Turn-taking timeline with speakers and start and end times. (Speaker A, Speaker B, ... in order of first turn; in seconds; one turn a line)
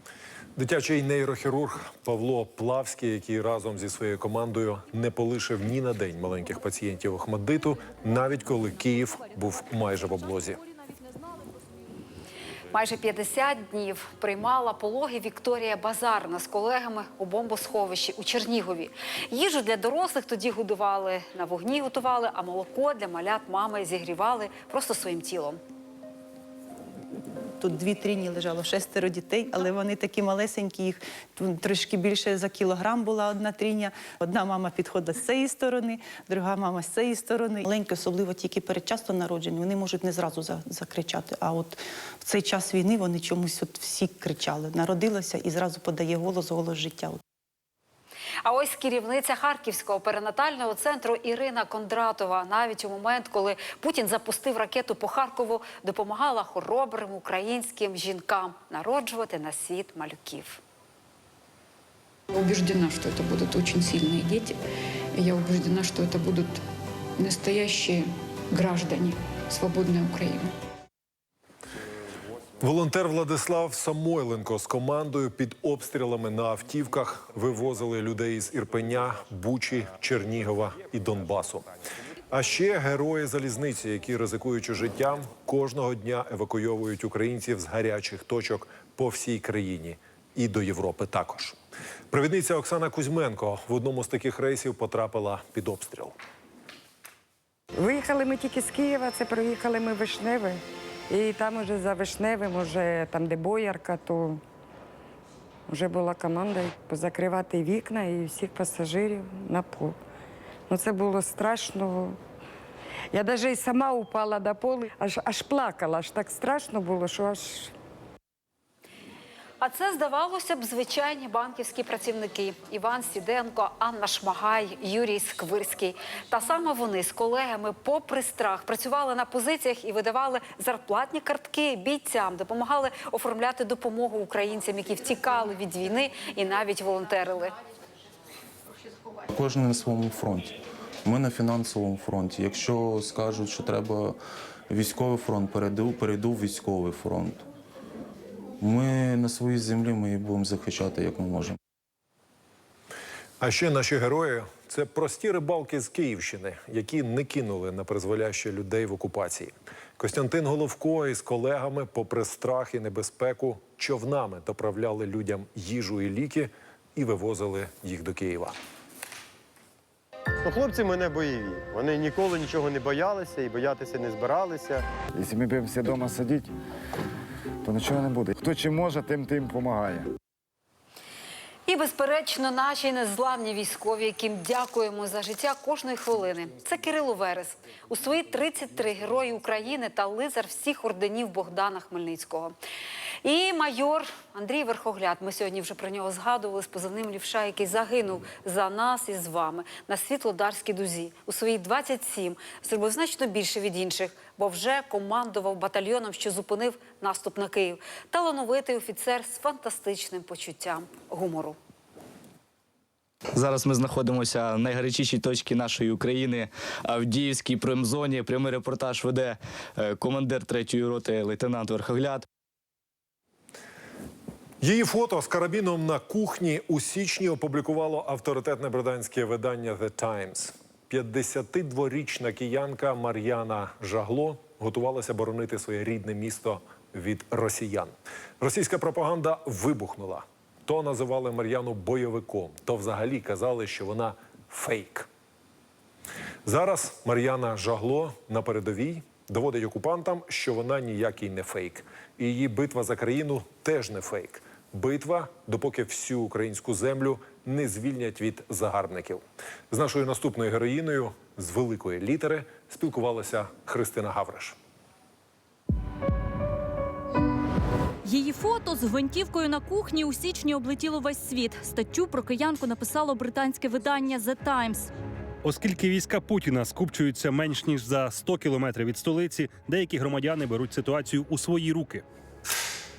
Speaker A: 0.6-10.6
Speaker B: 12.7-25.6
Speaker C: 27.6-47.2
Speaker B: 48.4-60.6
Speaker D: 62.3-64.6
Speaker D: 65.2-66.6
Speaker D: 67.2-70.5
Speaker A: 72.6-81.7
Speaker A: 82.3-91.6
Speaker A: 92.1-96.2
Speaker E: 97.8-104.4
Speaker E: 105.7-110.0
Speaker E: 110.7-112.2
Speaker E: 113.1-117.7
Speaker B: 119.6-137.5
Speaker F: 139.3-147.5
Speaker F: 148.6-151.6
Speaker A: 153.4-168.6
Speaker G: 170.4-174.8
Speaker H: 175.2-176.5
Speaker H: 177.6-180.1
Speaker B: 181.7-192.6
Speaker B: 193.2-211.6
Speaker I: 213.3-222.2
Speaker A: 224.6-245.1
Speaker A: 246.4-264.6
Speaker J: 268.0-274.9
Speaker K: 275.4-282.0